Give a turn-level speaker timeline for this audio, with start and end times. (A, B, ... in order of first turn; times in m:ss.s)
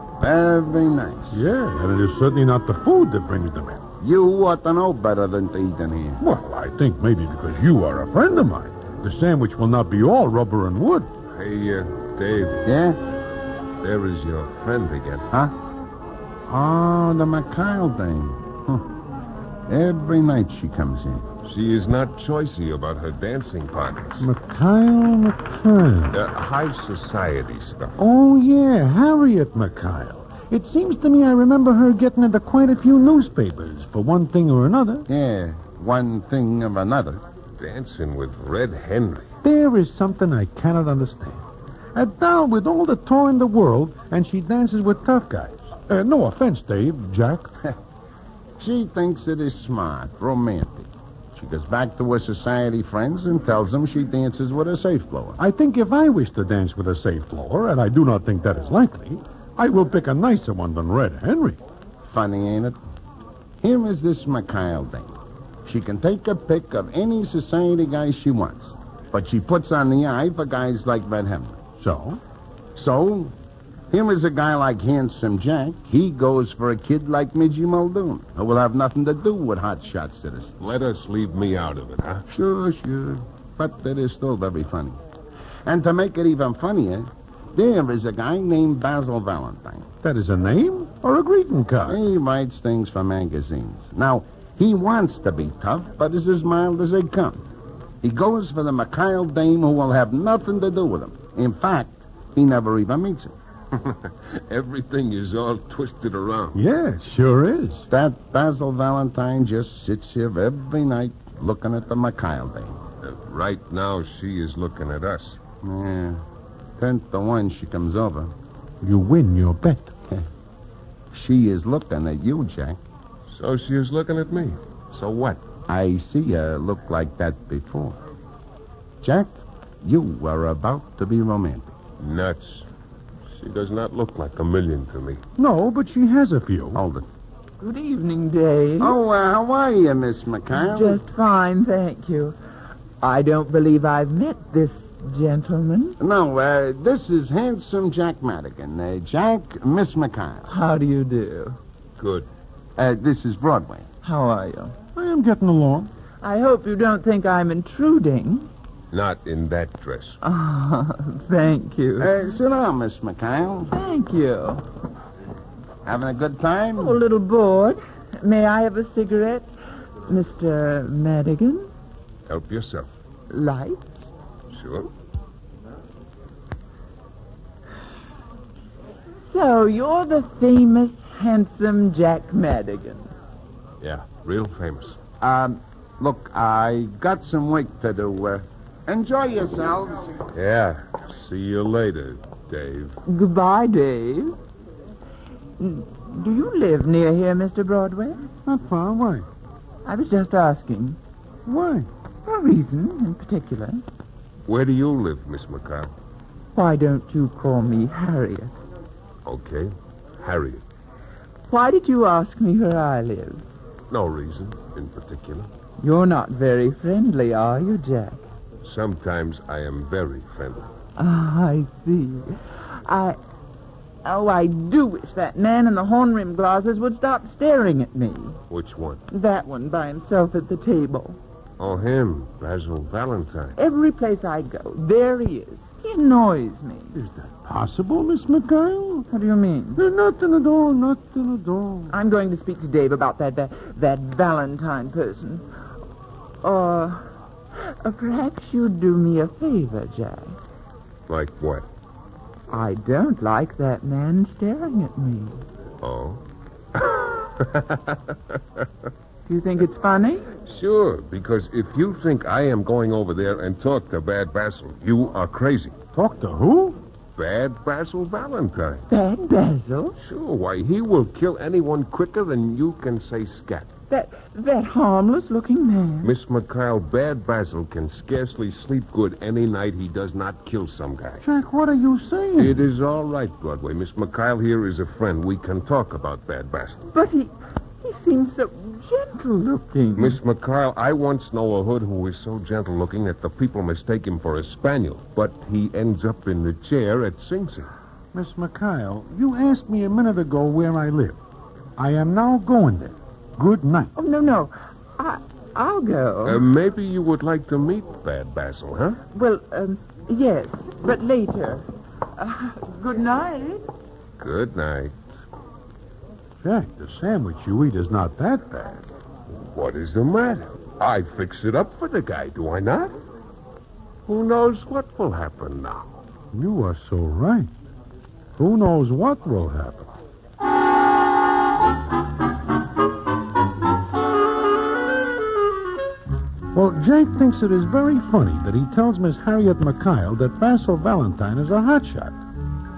0:00.2-0:01.4 A
0:01.3-0:03.8 B
0:04.0-0:06.2 A
0:06.2-0:11.1 B
0:11.3-0:12.6 C
0:12.6-0:13.0 A
0:13.8-0:15.3 C
0:16.5-0:18.8 A
0:19.7-0:21.3 A
0:21.4-0:24.3 C
0:24.2-0:26.2 B
0:26.1-0:28.0 C
0:28.0-0:35.1 B
0:35.1-0:37.2 A
0:37.6-0:39.3 C
0:39.4-0:41.4 B
0:42.0-0:47.5 B
0:48.6-0:55.4 A
0:55.4-1:01.6 B
1:02.1-1:02.8 A
1:03.6-1:05.1 A
1:05.7-1:11.6 A
1:11.8-1:12.2 B
1:12.8-1:13.3 A
1:13.9-1:20.6 A
1:20.6-1:22.2 C
1:22.3-1:25.0 A
1:25.7-1:29.9 A
1:30.0-1:32.0 B
1:31.9-1:37.4 A
1:38.0-1:43.4 A
1:43.7-1:46.6 C
1:46.5-1:47.8 B
1:47.9-1:52.8 A
1:53.0-1:55.4 C
1:55.6-1:56.2 A
1:56.8-1:58.3 A
1:58.8-2:00.0 B
2:01.1-2:02.8 A
2:03.3-2:05.4 C
2:05.7-2:08.0 A
2:09.0-2:11.8 A
2:12.0-2:12.7 C
2:13.3-2:15.2 C
2:15.4-2:16.8 B
2:16.8-2:17.1 A
2:17.6-2:19.0 D
2:18.8-2:21.0 A
2:20.5-2:22.4 D
2:23.0-2:26.0 D
2:26.0-2:30.5 A
2:30.5-2:31.6 D
2:32.0-2:32.3 C
2:32.8-2:33.9 A
2:34.0-2:34.8 D
2:35.0-2:35.9 B
2:36.2-2:38.5 D
2:38.9-2:40.2 C
2:40.2-2:42.1 D
2:42.0-2:43.7 A
2:43.7-2:44.6 D
2:45.8-2:47.0 A
2:46.8-2:49.5 D
2:50.1-2:51.7 D
2:52.3-2:52.9 C
2:53.3-2:53.9 D
2:54.5-2:54.9 C
2:59.3-3:03.1 D
3:03.8-3:05.0 C
3:05.2-3:10.2 A
3:10.3-3:13.0 C
3:13.1-3:14.4 D
3:15.6-3:18.2 D
3:18.5-3:19.3 B
3:19.8-3:21.0 D
3:21.5-3:21.9 B
3:22.2-3:23.8 D
3:24.5-3:25.9 C
3:26.6-3:28.6 D
3:29.2-3:30.6 C
3:31.5-3:33.4 D
3:33.9-3:35.5 C
3:35.8-3:38.3 D
3:38.6-3:40.7 C
3:41.0-3:43.2 D
3:44.0-3:48.4 D
3:48.5-3:49.0 C
3:49.1-3:51.2 D
3:51.6-3:53.6 C
3:53.6-3:57.0 D
3:56.9-3:59.1 B
3:59.1-3:59.8 D
3:59.8-4:02.0 B
4:01.9-4:05.5 D
4:06.4-4:10.4 D
4:11.1-4:11.7 C
4:12.5-4:15.4 D
4:15.8-4:16.2 C
4:16.8-4:18.6 C
4:19.3-4:20.3 D
4:20.4-4:25.8 C
4:25.9-4:26.8 B
4:27.2-4:28.9 C
4:28.9-4:30.0 D
4:30.0-4:33.7 C
4:33.9-4:36.1 D
4:36.0-4:41.2 C
4:41.2-4:42.7 B
4:42.4-4:46.8 C
4:46.9-4:50.2 D
4:50.0-4:57.7 C
4:58.1-5:01.2 B
5:01.8-5:03.9 B
5:04.0-5:06.4 D
5:06.2-5:09.0 C
5:09.1-5:11.6 D
5:12.2-5:13.7 D
5:14.2-5:15.0 C
5:16.4-5:18.9 B
5:19.3-5:22.9 C
5:24.1-5:26.0 C
5:26.3-5:27.5 B
5:28.4-5:29.9 B
5:36.5-5:42.2 B